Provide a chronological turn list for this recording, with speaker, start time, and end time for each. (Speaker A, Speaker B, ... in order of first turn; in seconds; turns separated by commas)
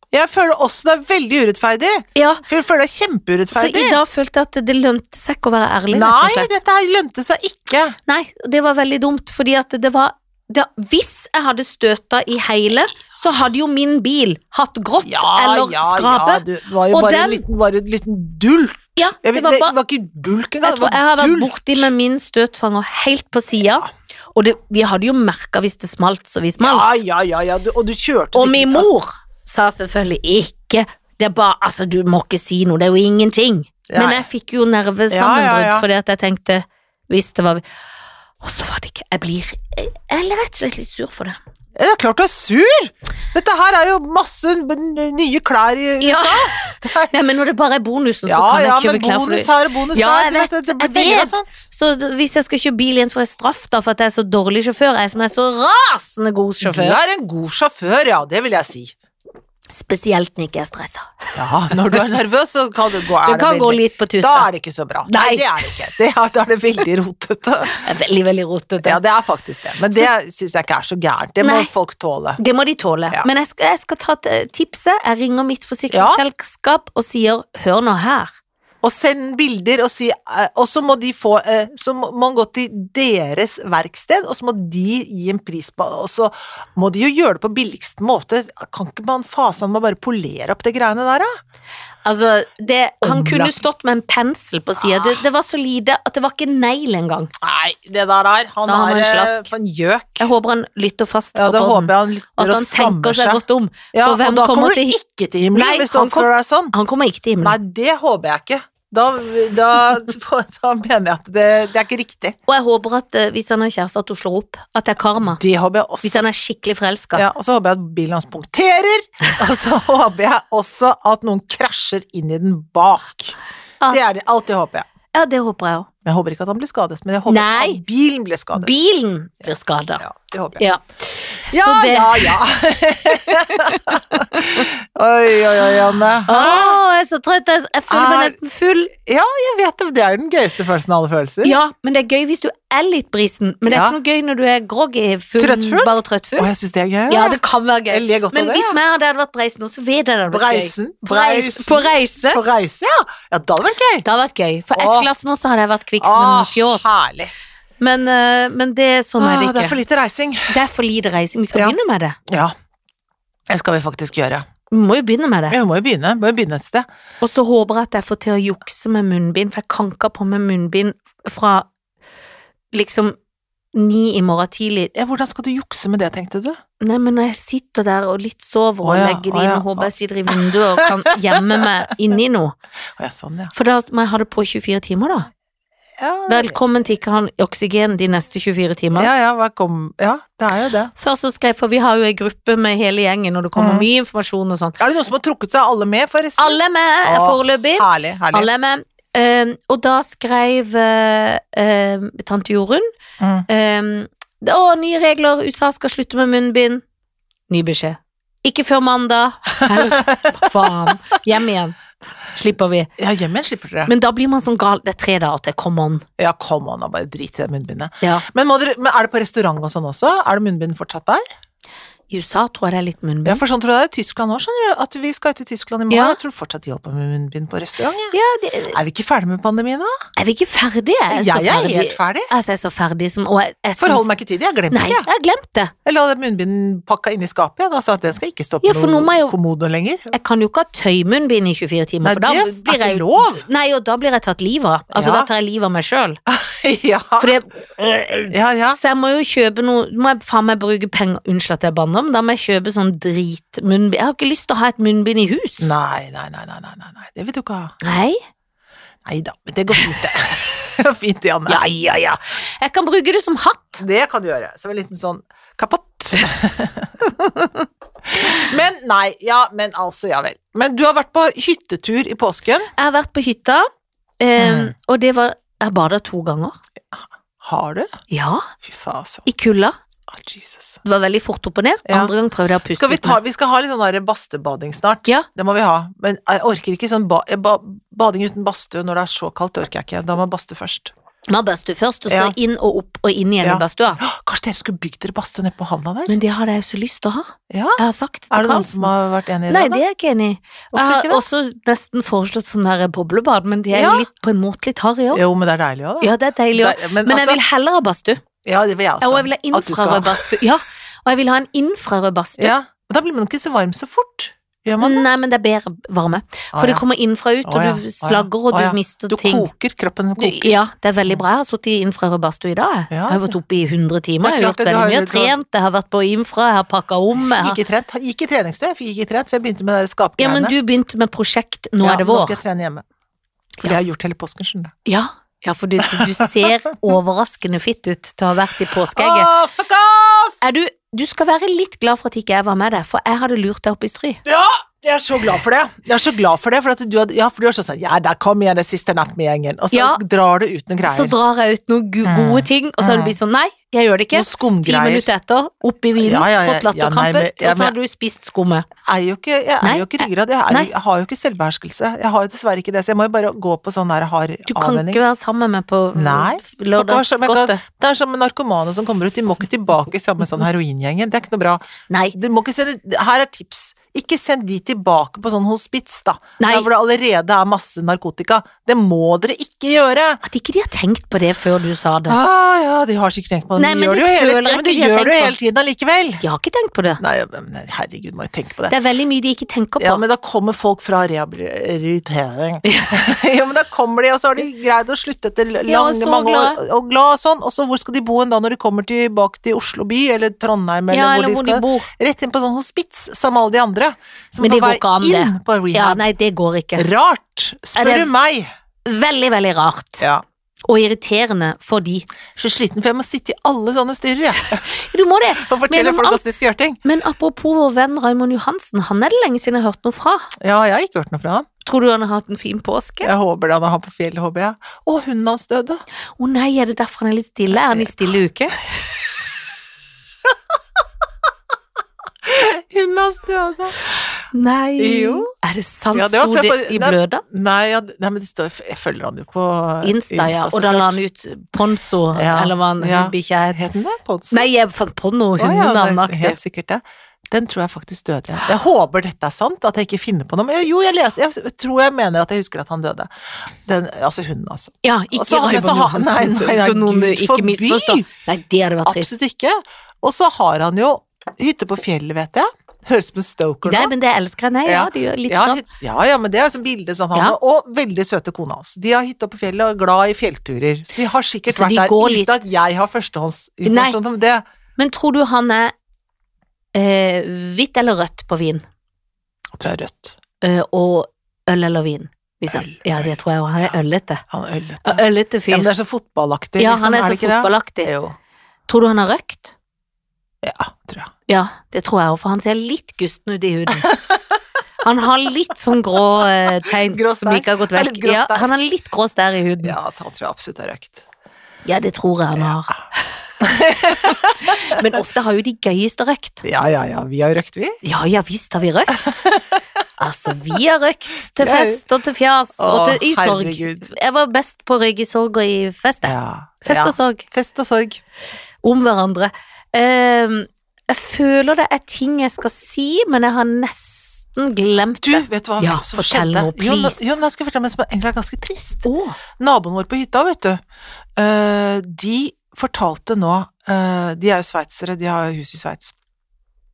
Speaker A: 0.1-4.0, Speaker B: 2.1-2.4, Speaker B: 3.5-6.5, Speaker A: 5.9-8.0, Speaker B: 8.1-17.4, Speaker A: 15.0-21.9, Speaker B: 19.0-19.8, Speaker B: 20.6-27.0, Speaker A: 26.6-28.9, Speaker B: 28.3-37.6, Speaker A: 33.9-34.2, Speaker A: 35.1-35.9, Speaker B: 38.4-41.4, Speaker A: 41.8-47.1, Speaker B: 46.0-57.0, Speaker A: 48.3-51.7, Speaker A: 56.6-59.0, Speaker B: 59.7-61.1, Speaker A: 61.4-67.7, Speaker B: 63.2-64.5, Speaker B: 65.1-65.8, Speaker B: 67.7-69.0, Speaker A: 68.8-72.4, Speaker B: 71.4-71.7, Speaker B: 72.4-78.3, Speaker A: 75.9-76.2, Speaker A: 78.8-91.3, Speaker B: 92.0-97.3, Speaker A: 93.0-93.6, Speaker A: 94.8-95.2, Speaker A: 97.4-100.3, Speaker B: 98.6-99.5, Speaker B: 100.2-105.0, Speaker A: 101.3-103.4, Speaker A: 103.9-106.7, Speaker B: 105.5-107.6, Speaker A: 107.4-112.4, Speaker B: 112.5-115.4, Speaker A: 115.2-116.2, Speaker B: 116.0-117.3, Speaker A: 117.2-123.4, Speaker A: 123.9-124.9, Speaker B: 125.1-125.9, Speaker A: 126.0-128.7, Speaker B: 127.3-127.8, Speaker B: 128.5-130.1, Speaker A: 130.0-130.6, Speaker B: 130.6-132.4, Speaker A: 131.5-136.8, Speaker B: 133.1-134.7, Speaker B: 136.3-138.9, Speaker A: 137.9-138.4, Speaker A: 138.9-141.6, Speaker B: 141.4-146.5, Speaker A: 143.7-144.0, Speaker A: 145.4-147.4, Speaker B: 147.1-152.4, Speaker A: 147.9-148.8, Speaker A: 150.3-154.1, Speaker B: 154.0-157.0, Speaker A: 154.8-155.1, Speaker A: 156.0-157.3, Speaker B: 157.8-159.8, Speaker A: 159.2-160.5, Speaker B: 160.5-162.2, Speaker A: 162.3-162.6, Speaker A: 163.5-164.4, Speaker B: 164.7-165.6, Speaker A: 165.5-166.9, Speaker B: 167.2-171.7, Speaker B: 172.7-173.2, Speaker B: 173.7-174.9, Speaker A: 174.9-176.6, Speaker B: 176.8-182.6, Speaker A: 178.8-181.7, Speaker A: 183.0-183.5, Speaker B: 183.5-185.3, Speaker A: 186.0-186.6, Speaker B: 186.3-189.1, Speaker A: 188.9-190.9, Speaker B: 191.0-194.8, Speaker A: 193.6-193.9, Speaker A: 194.8-198.5, Speaker B: 196.4-202.9, Speaker A: 203.2-203.5, Speaker B: 203.5-206.8, Speaker B: 207.5-211.8, Speaker A: 209.7-210.9, Speaker B: 212.3-212.9, Speaker A: 213.0-213.9, Speaker B: 213.9-216.1, Speaker A: 216.2-221.2, Speaker B: 222.1-223.4, Speaker A: 223.2-228.1, Speaker B: 225.9-226.2, Speaker B: 228.1-228.8, Speaker A: 228.7-229.9, Speaker B: 230.2-234.1, Speaker A: 231.1-232.3, Speaker A: 233.8-235.1, Speaker B: 234.7-235.7, Speaker A: 235.8-240.1, Speaker B: 238.6-239.4, Speaker B: 240.1-246.2, Speaker A: 242.0-243.4, Speaker A: 244.9-245.3, Speaker A: 246.3-247.3, Speaker B: 247.2-255.8, Speaker A: 248.3-248.8, Speaker A: 255.6-257.8, Speaker B: 257.8-258.2, Speaker A: 259.1-261.6, Speaker B: 261.5-263.8, Speaker A: 263.8-266.9, Speaker B: 267.1-267.7, Speaker A: 268.1-272.7, Speaker B: 272.8-273.7, Speaker B: 274.2-276.6, Speaker A: 274.4-274.7, Speaker A: 276.9-277.9, Speaker B: 278.1-278.5, Speaker A: 278.6-279.3, Speaker B: 279.3-279.8, Speaker A: 280.1-280.8, Speaker B: 280.8-283.2, Speaker A: 281.9-282.1, Speaker A: 282.7-290.9, Speaker B: 291.3-294.0, Speaker A: 292.1-292.4, Speaker A: 293.4-296.2, Speaker B: 296.1-298.9, Speaker A: 297.5-297.8, Speaker A: 298.3-299.8, Speaker B: 299.5-305.2, Speaker A: 300.7-301.2, Speaker A: 303.7-304.1, Speaker A: 305.1-307.4, Speaker B: 306.0-308.2, Speaker A: 308.4-310.4, Speaker B: 309.0-312.5, Speaker A: 312.4-315.1, Speaker B: 314.8-319.5, Speaker A: 316.5-316.8, Speaker A: 317.4-321.2, Speaker B: 320.2-327.6, Speaker A: 322.9-323.4, Speaker A: 324.2-325.4, Speaker A: 327.2-330.6, Speaker B: 330.2-332.4, Speaker A: 331.8-332.8, Speaker A: 333.6-334.7, Speaker B: 334.9-339.3, Speaker A: 335.9-336.3, Speaker A: 338.9-340.4, Speaker B: 340.4-344.2, Speaker A: 344.2-351.1, Speaker B: 349.7-350.0, Speaker B: 350.8-358.7, Speaker A: 352.0-353.2, Speaker A: 354.1-355.1, Speaker A: 356.0-357.8, Speaker A: 358.9-365.0, Speaker B: 359.6-360.7, Speaker B: 364.5-367.6, Speaker A: 365.9-371.6, Speaker B: 371.9-372.1, Speaker A: 372.1-380.2, Speaker B: 376.4-376.7, Speaker B: 380.2-382.2, Speaker A: 382.1-386.2, Speaker B: 383.6-385.4, Speaker B: 386.2-387.0, Speaker A: 387.0-388.8, Speaker B: 388.7-390.0, Speaker A: 389.8-406.0, Speaker B: 392.6-393.0, Speaker B: 395.7-396.6, Speaker B: 400.9-401.9, Speaker B: 404.4-406.9, Speaker A: 406.8-408.5, Speaker B: 407.8-408.1, Speaker B: 408.9-410.1, Speaker B: 410.7-412.1, Speaker A: 412.4-414.8, Speaker B: 414.6-416.2, Speaker A: 415.4-416.8, Speaker B: 416.8-420.3, Speaker A: 420.4-421.5, Speaker B: 421.6-423.1, Speaker A: 423.0-425.8, Speaker B: 426.2-428.6, Speaker A: 427.7-428.1, Speaker A: 432.2-433.8, Speaker B: 434.3-437.2, Speaker A: 434.8-435.3, Speaker A: 435.9-441.0, Speaker B: 439.8-443.6, Speaker A: 442.1-444.5, Speaker B: 444.3-446.4, Speaker A: 445.4-458.1, Speaker B: 454.8-459.1, Speaker A: 458.9-463.9, Speaker B: 463.6-465.6, Speaker A: 464.7-474.4, Speaker B: 471.5-472.4, Speaker B: 473.6-474.0, Speaker B: 474.8-475.7, Speaker B: 476.7-478.6, Speaker A: 479.6-480.2, Speaker B: 480.4-484.2, Speaker A: 482.5-483.8, Speaker A: 484.3-488.2, Speaker B: 484.8-485.7, Speaker B: 486.6-487.9, Speaker B: 488.7-489.6, Speaker A: 490.4-491.1, Speaker B: 491.3-493.9, Speaker A: 493.9-494.2, Speaker B: 494.8-499.8, Speaker A: 496.2-498.5, Speaker A: 499.6-501.1, Speaker B: 501.6-502.8, Speaker A: 503.4-504.8, Speaker B: 504.0-506.4, Speaker A: 506.4-507.8, Speaker B: 507.8-509.2, Speaker A: 509.0-509.6, Speaker B: 510.0-517.3, Speaker A: 511.4-511.8, Speaker A: 512.6-513.9, Speaker A: 516.0-518.0, Speaker B: 518.6-527.2, Speaker A: 525.0-530.6, Speaker B: 528.9-529.2, Speaker A: 531.2-536.0